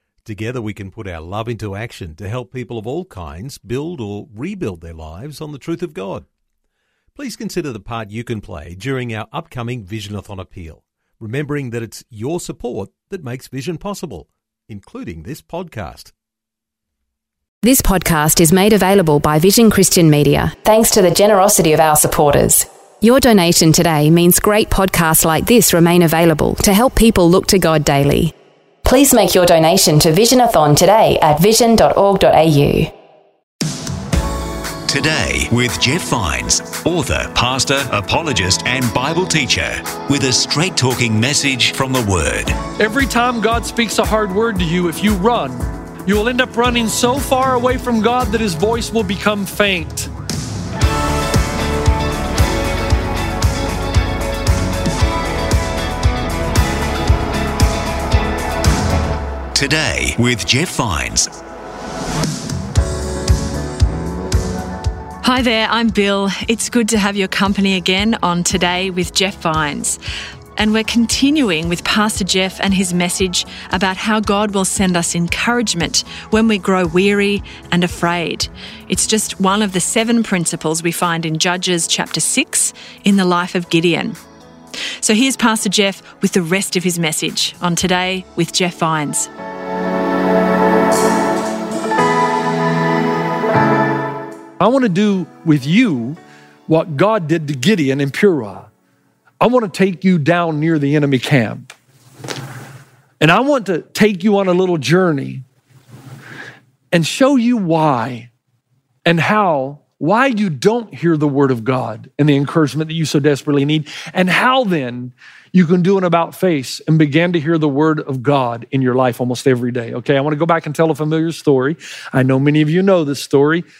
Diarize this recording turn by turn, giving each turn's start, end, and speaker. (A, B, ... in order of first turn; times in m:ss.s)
0:00.2-0:06.3 A
0:07.1-0:16.1 A
0:17.6-0:28.3 B
0:28.8-0:32.9 B
0:34.9-0:42.6 C
0:42.8-0:50.1 D
0:59.5-1:01.3 C
1:05.2-1:10.0 E
1:10.6-1:24.2 E
1:25.0-1:29.3 E
1:34.6-1:38.7 D
1:39.4-1:41.7 D
1:43.2-1:45.4 D
1:46.9-1:48.3 D
1:49.0-2:03.6 D